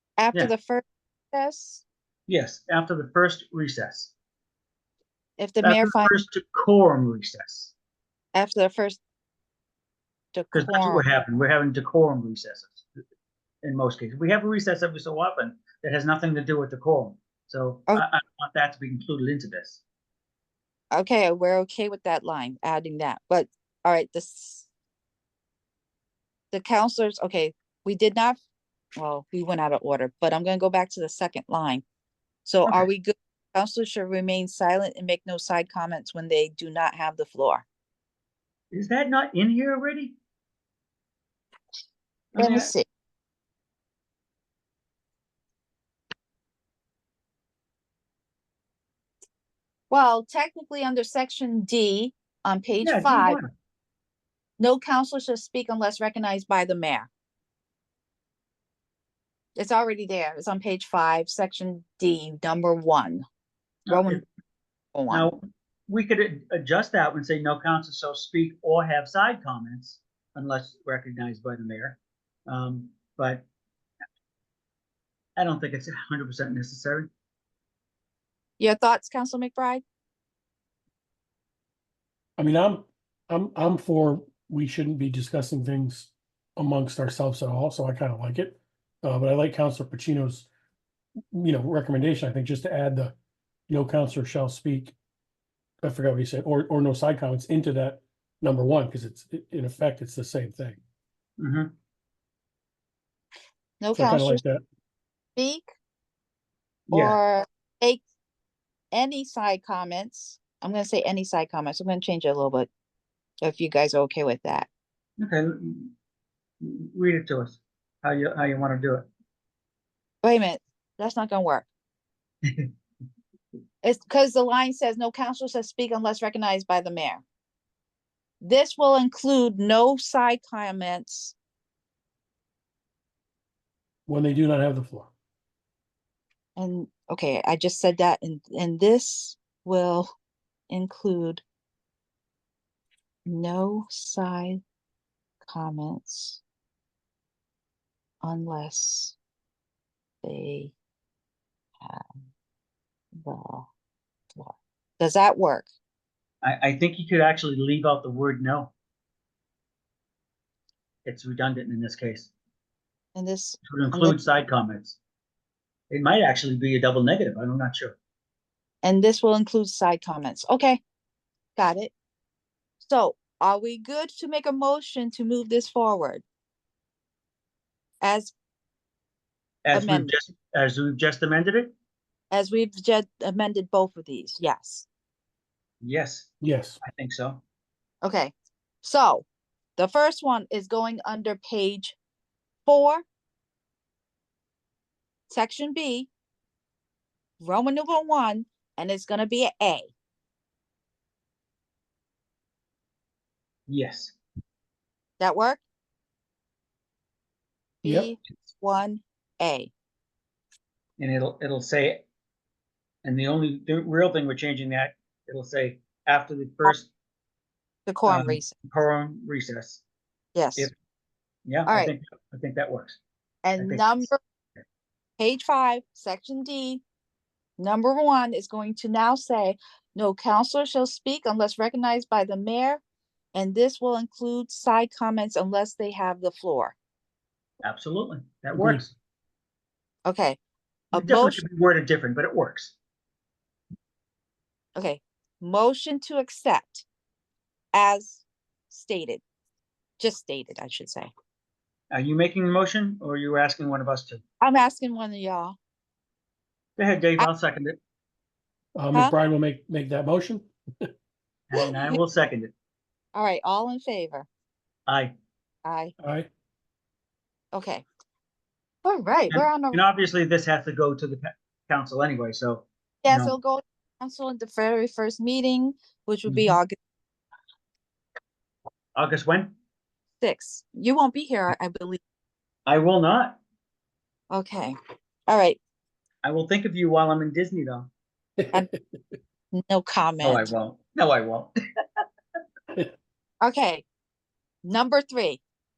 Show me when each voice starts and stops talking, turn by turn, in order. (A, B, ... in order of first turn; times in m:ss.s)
0:00.2-0:01.8 A
0:02.3-0:04.1 B
0:05.4-0:06.2 A
0:05.6-0:07.7 B
0:08.3-0:09.0 A
0:10.3-0:11.0 A
0:10.5-0:12.9 B
0:13.6-0:19.8 B
0:20.9-0:24.7 A
0:26.5-0:28.4 A
0:29.0-0:31.8 A
0:32.4-0:37.6 A
0:38.7-0:40.2 B
0:42.3-0:42.7 B
0:42.4-0:42.8 A
0:49.9-0:53.4 A
0:52.8-0:53.5 B
0:54.6-0:57.1 A
0:59.6-1:03.2 A
1:03.9-1:04.2 B
1:03.9-1:04.2 A
1:04.9-1:05.3 A
1:05.1-1:13.4 B
1:15.4-1:17.1 B
1:18.6-1:19.8 A
1:22.4-1:30.5 C
1:31.3-1:33.2 C
1:33.7-1:34.9 C
1:35.8-1:40.8 C
1:41.4-1:41.7 B
1:43.8-1:44.4 A
1:43.9-1:44.6 C
1:45.4-1:45.7 A
1:46.9-1:47.2 B
1:46.9-1:48.0 A
1:48.9-1:52.7 A
1:53.4-1:54.7 A
1:55.2-1:55.9 B
1:56.6-1:59.1 B
2:00.2-2:01.7 A
2:03.8-2:07.2 A
2:08.4-2:11.3 A
2:14.1-2:15.1 C
2:16.6-2:20.1 A
2:20.7-2:21.4 A
2:23.3-2:24.6 A
2:25.4-2:26.4 A
2:28.2-2:29.2 A
2:30.2-2:30.8 A
2:31.8-2:32.2 A
2:33.2-2:33.7 A
2:34.4-2:35.7 A
2:36.4-2:38.7 B
2:41.0-2:42.3 B
2:43.2-2:44.2 A
2:43.7-2:45.0 B
2:45.9-2:48.0 B
2:48.8-2:50.8 A
2:51.6-2:51.9 A
2:52.8-2:56.2 A
2:58.0-2:58.3 A
2:59.6-3:01.7 B
2:59.7-3:00.1 A
3:02.3-3:04.9 A
3:05.8-3:07.4 B
3:06.4-3:06.8 C
3:08.0-3:09.2 A
3:09.8-3:12.0 A
3:12.7-3:13.0 A
3:15.3-3:16.1 A
3:17.4-3:19.9 A
3:23.7-3:24.2 B
3:25.2-3:25.6 A
3:27.8-3:29.7 A
3:27.8-3:28.1 C
3:31.0-3:32.1 B
3:33.0-3:36.9 B
3:37.9-3:38.6 A
3:38.1-3:39.8 B
3:40.3-3:40.7 A
3:41.4-3:43.0 B
3:41.7-3:41.9 A
3:43.4-3:44.2 A
3:43.6-3:44.1 B
3:45.2-3:46.8 A
3:47.6-3:52.8 A
3:53.3-3:56.8 A
3:57.6-3:59.0 B
3:58.6-3:58.8 C
4:00.0-4:00.4 A
4:00.9-4:01.4 A
4:00.9-4:02.8 B
4:04.8-4:06.8 A
4:07.7-4:09.2 A
4:10.0-4:11.1 A
4:11.9-4:14.2 B
4:14.4-4:15.6 A
4:16.8-4:17.8 B
4:18.8-4:20.9 C
4:21.5-4:22.5 B
4:21.6-4:22.0 A
4:23.1-4:24.3 A
4:24.9-4:25.1 B
4:25.6-4:25.9 A
4:26.0-4:26.3 C
4:27.5-4:27.8 A
4:28.8-4:29.8 A
4:29.3-4:33.4 B
4:33.0-4:36.8 A
4:36.3-4:36.6 B
4:39.0-4:39.5 B
4:40.2-4:42.0 A
4:42.6-4:43.4 B
4:44.3-4:44.8 A
4:45.3-4:45.6 A
4:46.2-4:47.9 B
4:49.5-4:50.5 A
4:50.2-4:51.5 B
4:53.4-4:53.8 A
4:54.6-4:55.4 A